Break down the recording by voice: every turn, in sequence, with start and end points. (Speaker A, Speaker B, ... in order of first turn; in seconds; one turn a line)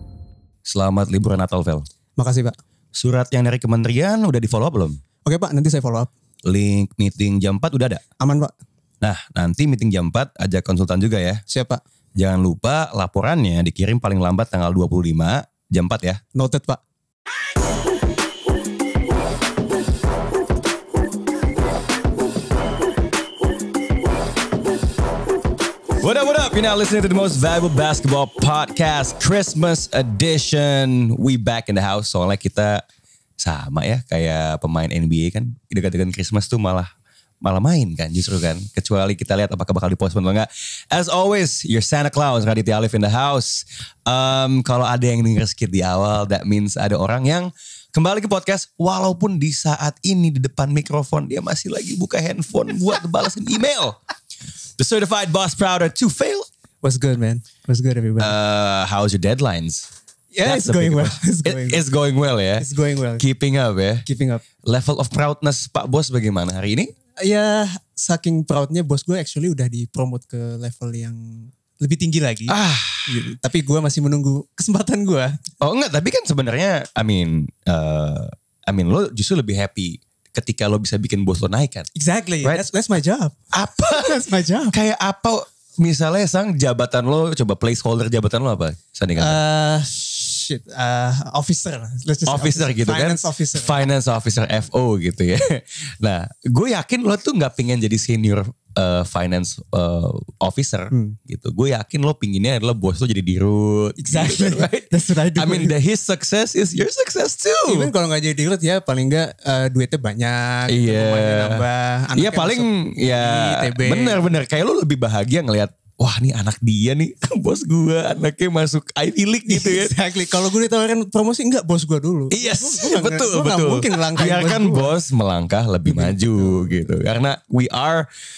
Speaker A: 0.7-1.9
Speaker B: 2.2-2.6
Speaker A: 3.0-5.0
Speaker B: 5.2-6.1
Speaker A: 6.5-8.0
Speaker B: 8.2-8.5
Speaker A: 9.0-11.4
Speaker B: 11.5-11.8
Speaker A: 12.2-16.2
Speaker B: 16.4-16.8
Speaker A: 26.0-32.8
Speaker A: 33.4-36.9
Speaker A: 37.4-54.0
Speaker A: 54.8-56.5
Speaker B: 56.8-58.3
Speaker A: 58.2-59.9
Speaker B: 60.3-61.8
Speaker A: 60.4-62.7
Speaker B: 62.6-63.2
Speaker A: 63.2-64.0
Speaker B: 64.1-64.4
Speaker A: 64.7-66.9
Speaker B: 67.2-72.5
Speaker A: 72.5-73.2
Speaker B: 73.1-75.4
Speaker A: 75.6-81.9
Speaker B: 82.0-84.8
Speaker A: 83.5-89.4
Speaker B: 89.2-93.9
Speaker A: 92.3-107.9
Speaker B: 100.9-101.2
Speaker B: 104.0-105.8
Speaker B: 107.7-114.2
Speaker A: 110.7-111.6
Speaker A: 112.1-120.0
Speaker B: 119.5-124.9
Speaker A: 122.3-128.1
Speaker B: 125.8-126.9